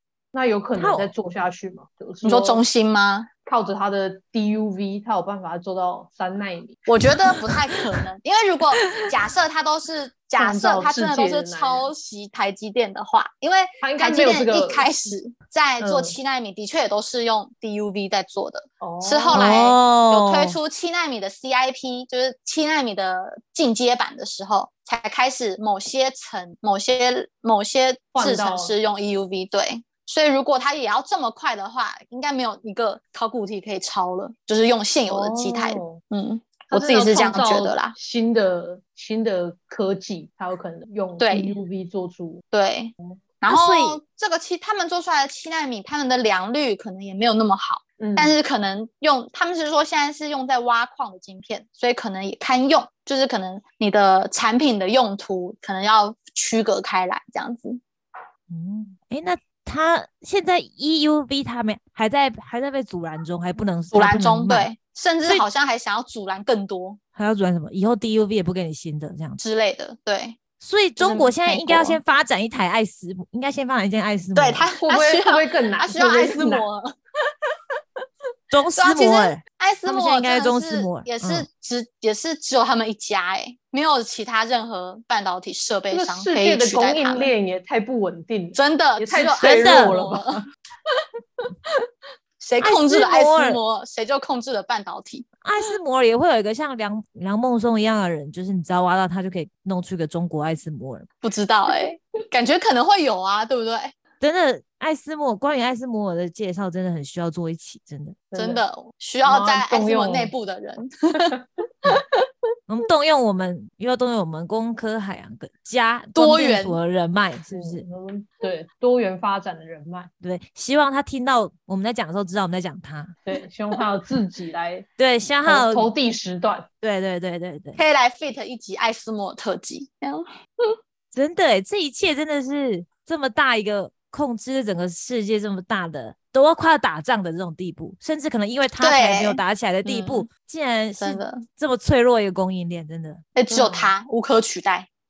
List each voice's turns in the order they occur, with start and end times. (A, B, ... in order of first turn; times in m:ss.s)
0:00.3-0:02.6 A
0:00.8-0:01.1 B
0:02.2-0:03.3 C
0:03.4-0:06.8 A
0:06.9-0:37.9 C
0:10.4-0:11.9 A
0:13.8-0:14.9 A
0:15.8-0:16.2 A
0:18.8-0:19.6 A
0:19.3-0:20.6 B
0:28.1-0:28.8 A
0:35.1-0:36.0 A
0:36.7-0:42.4 A
0:41.2-0:41.6 C
0:42.5-0:57.8 C
0:43.5-0:44.0 B
0:48.0-0:48.4 A
0:58.5-1:04.7 B
1:03.9-1:07.0 C
1:07.1-1:09.4 B
1:09.4-1:10.4 C
1:10.6-1:14.7 B
1:11.0-1:12.0 C
1:14.4-1:17.3 C
1:14.8-1:16.6 A
1:18.5-1:21.5 B
1:18.8-1:27.3 C
1:25.9-1:30.4 A
1:28.6-1:30.4 C
1:29.4-1:30.0 B
1:32.4-1:35.3 C
1:32.6-1:33.6 B
1:35.4-1:41.1 B
1:41.2-1:43.9 C
1:44.2-1:48.2 B
1:48.3-1:48.6 A
1:48.4-1:51.3 C
1:49.2-1:50.3 A
1:52.7-1:57.9 B
1:56.1-1:56.8 C
1:57.5-2:00.1 A
2:00.2-2:03.2 B
2:03.3-2:04.9 A
2:05.0-2:05.9 B
2:05.4-2:06.7 A
2:06.8-2:07.8 B
2:07.8-2:10.8 C
2:11.1-2:23.2 B
2:18.8-2:20.3 C
2:21.0-2:21.4 C
2:23.4-2:24.9 C
2:23.5-2:23.9 A